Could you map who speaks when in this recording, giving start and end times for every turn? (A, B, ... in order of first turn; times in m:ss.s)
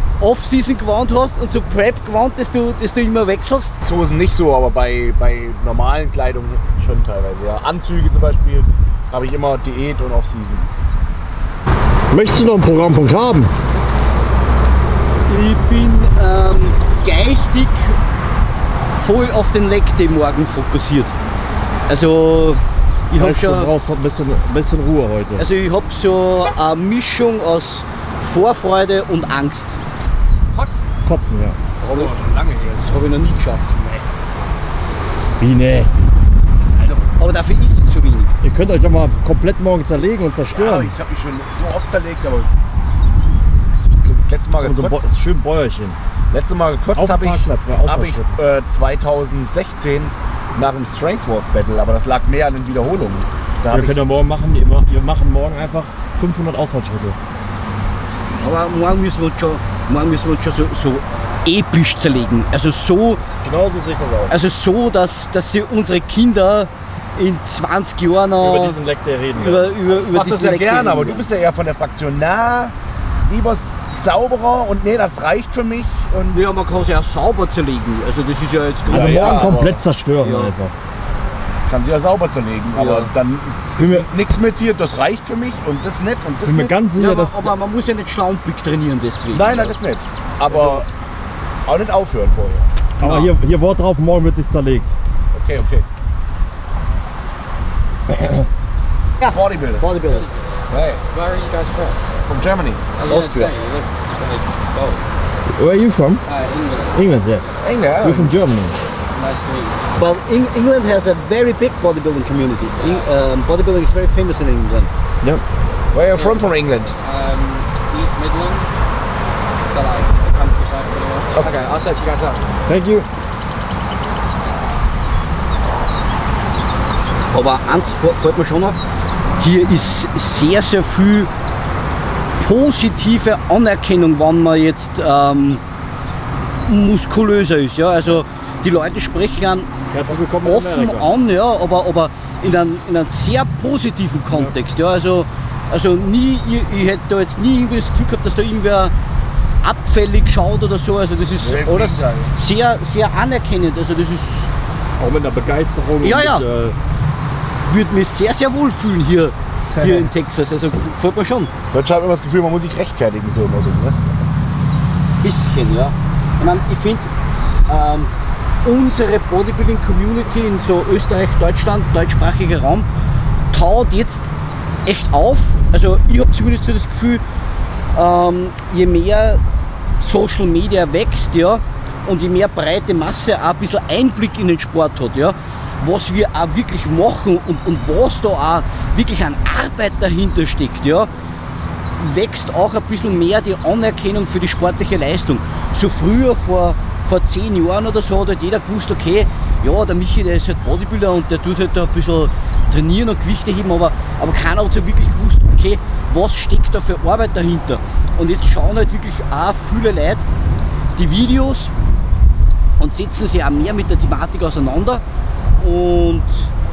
0:00.2-0:03.8 A
0:03.8-0:10.7 B
0:12.1-0:13.5 C
0:15.2-0:18.0 A
0:18.9-0:21.1 A
0:21.9-0:23.7 A
0:23.1-0:25.4 C
0:25.4-0:29.8 A
0:30.5-0:30.8 B
0:31.0-0:31.6 C
0:31.8-0:33.2 B
0:31.8-0:32.1 A
0:32.8-0:34.0 A
0:35.4-0:35.9 C
0:36.7-0:37.3 B
0:37.2-0:38.4 A
0:38.4-0:40.9 C
0:40.5-0:42.5 B
0:43.7-0:45.1 B
0:44.6-0:46.0 C
0:46.3-0:54.0 B
0:46.9-0:48.3 C
0:53.7-0:57.2 C
0:58.4-1:03.2 A
1:03.4-1:04.3 C
1:04.3-1:08.8 A
1:08.4-1:09.7 C
1:09.4-1:11.2 A
1:10.0-1:12.7 B
1:13.3-1:16.4 B
1:16.3-1:19.6 A
1:18.8-1:19.8 B
1:18.9-1:20.7 C
1:20.2-1:20.5 A
1:21.6-1:26.8 B
1:22.7-1:23.1 A
1:23.8-1:24.0 C
1:26.4-1:27.5 C
1:27.0-1:29.8 A
1:29.3-1:30.9 B
1:31.6-1:32.7 B
1:33.0-1:34.9 C
1:33.0-1:33.3 A
1:35.3-1:35.9 B
1:38.1-1:38.4 C
1:39.2-1:40.0 B
1:39.2-1:40.3 A
1:40.1-1:40.5 D
1:40.7-1:41.0 B
1:41.1-1:42.0 D
1:42.2-1:43.2 B
1:43.0-1:45.0 D
1:43.1-1:43.5 A
1:45.6-1:46.2 C
1:46.2-1:47.0 D
1:46.9-1:47.4 C
1:47.6-1:48.3 B
1:48.0-1:48.8 C
1:49.1-1:49.9 D
1:50.0-1:54.9 A
1:55.9-1:56.9 B
1:56.0-1:58.8 D
1:59.7-2:02.4 D
2:02.7-2:03.1 C
2:07.3-2:08.8 A
2:09.4-2:11.3 A
2:12.4-2:15.6 A
2:16.6-2:28.9 A
2:19.9-2:21.1 C
2:29.6-2:34.5 A
2:31.4-2:32.3 B
2:35.0-2:36.8 C
2:36.0-2:36.4 A
2:37.7-2:41.5 A
2:41.7-2:44.0 B
2:45.2-2:47.1 A
2:47.7-2:48.1 A
2:48.6-2:52.9 A
2:53.5-2:54.3 A
2:54.8-2:57.2 A
2:57.9-2:59.4 A
3:00.0-3:11.1 A
3:12.0-3:30.2 A
3:31.0-3:31.7 A
3:32.8-3:35.0 A
3:35.6-3:36.5 A